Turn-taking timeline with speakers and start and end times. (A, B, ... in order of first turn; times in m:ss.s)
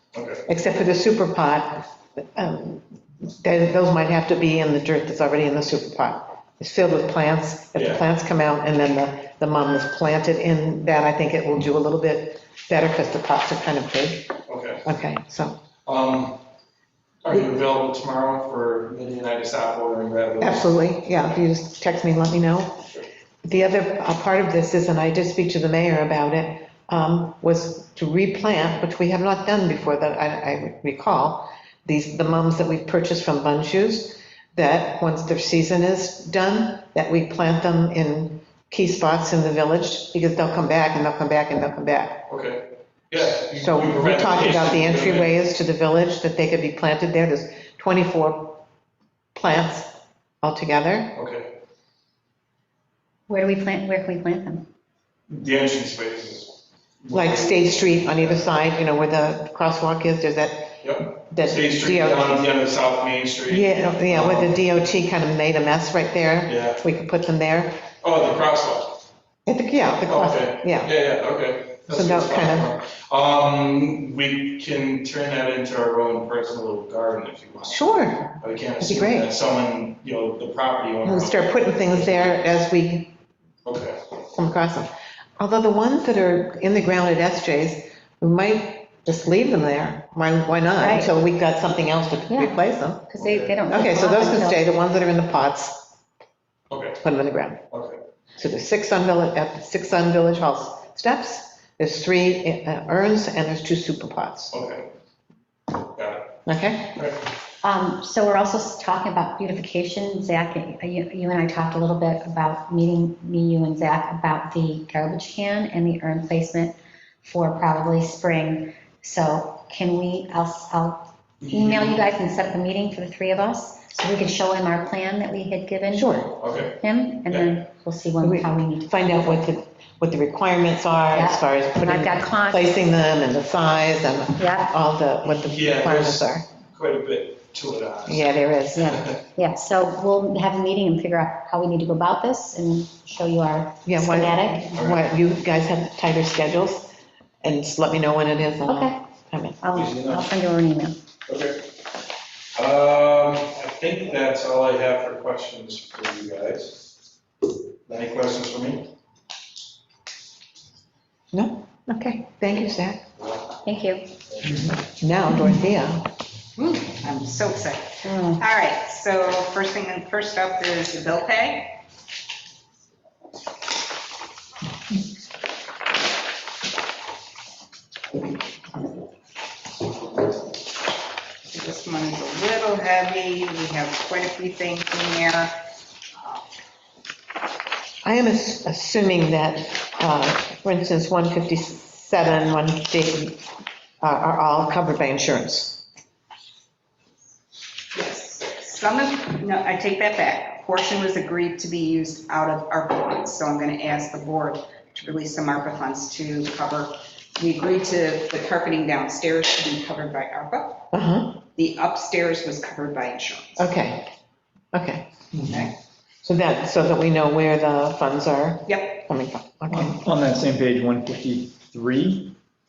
0:00.1-0:00.4 A
0:00.5-0:15.6 B
0:07.7-0:08.0 A
0:14.5-0:14.8 A
0:15.8-0:16.4 A
0:17.2-0:20.7 A
0:20.4-0:22.8 B
0:23.4-0:42.2 B
0:42.3-0:45.3 A
0:43.6-0:48.6 B
0:49.3-0:49.9 B
0:50.4-0:51.1 B
0:51.1-0:51.5 A
0:53.3-0:54.6 C
0:55.3-0:58.5 A
0:57.1-1:02.5 B
1:00.8-1:04.6 A
1:03.5-1:07.8 B
1:06.4-1:06.8 A
1:08.0-1:09.0 A
1:09.4-1:10.9 B
1:10.1-1:22.3 A
1:11.9-1:12.7 B
1:17.7-1:19.3 B
1:21.0-1:23.1 B
1:23.6-1:24.0 A
1:24.3-1:33.1 B
1:30.8-1:31.1 C
1:32.3-1:34.6 C
1:33.2-1:33.5 A
1:33.7-1:35.9 B
1:36.7-1:37.0 A
1:37.0-1:37.6 B
1:37.7-1:38.0 A
1:38.4-1:44.5 B
1:44.5-1:44.9 A
1:45.9-1:46.3 A
1:46.4-1:47.0 B
1:47.6-2:08.9 C
2:01.4-2:02.1 A
2:05.9-2:06.3 B
2:06.4-2:07.6 A
2:08.2-2:16.5 B
2:11.1-2:12.7 C
2:14.4-2:14.7 C
2:15.5-2:19.2 A
2:18.1-2:19.0 B
2:18.8-2:24.7 C
2:23.9-2:29.6 B
2:28.7-2:29.0 C
2:29.6-2:31.0 C
2:29.7-2:30.3 A
2:31.3-2:31.7 A
2:32.6-2:36.8 A
2:37.9-2:38.9 A
2:41.3-2:43.0 B
2:43.6-2:44.1 C
2:44.6-2:46.1 B
2:46.6-2:51.8 D
2:48.0-2:48.4 C
3:01.5-3:05.6 D
3:08.0-3:13.4 B
3:14.0-3:15.8 B
3:17.9-3:30.8 D
3:30.9-3:31.4 B
3:31.6-3:33.7 D
3:33.6-3:34.1 B
3:34.7-3:35.1 B
3:35.3-3:35.6 E
3:35.4-3:35.7 D
3:36.2-3:40.0 B
3:38.7-3:39.0 D
3:39.7-3:42.4 E